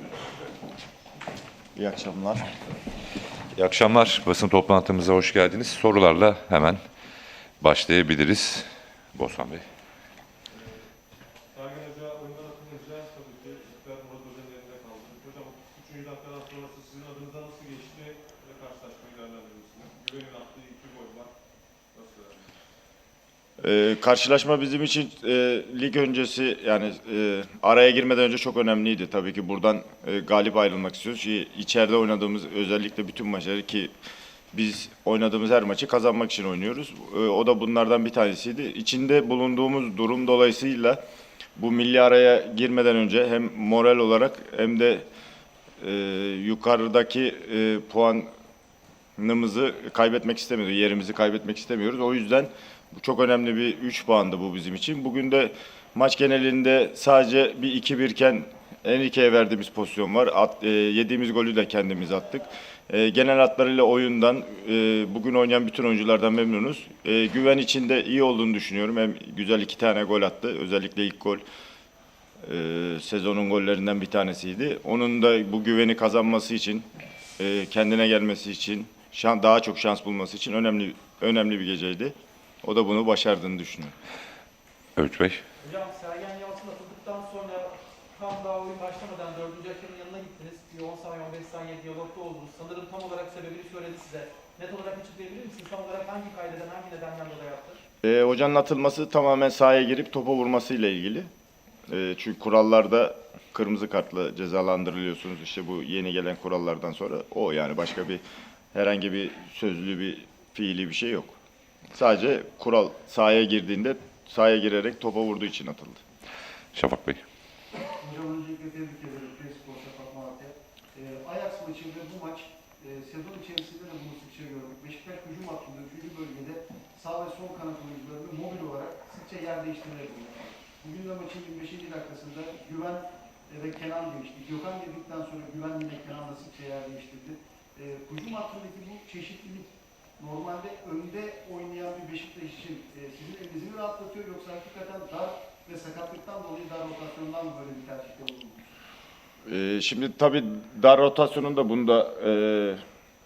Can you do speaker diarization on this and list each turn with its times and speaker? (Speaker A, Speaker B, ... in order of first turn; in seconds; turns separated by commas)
Speaker A: 1.8-2.5, Speaker B: 3.5-6.8, Speaker B: 7.6-9.6, Speaker C: 11.5-21.3, Speaker C: 21.9-22.4, Speaker A: 23.6-33.9, Speaker A: 34.5-41.0, Speaker A: 41.6-45.1, Speaker A: 45.8-48.3, Speaker A: 49.2-71.4, Speaker A: 72.4-76.9, Speaker A: 77.4-83.9, Speaker B: 85.0-85.4, Speaker D: 85.6-97.8, Speaker A: 98.0-101.3, Speaker A: 101.9-108.2, Speaker A: 108.7-111.3, Speaker A: 111.9-116.0, Speaker B: 116.8-117.2, Speaker E: 118.0-148.7, Speaker A: 149.5-152.8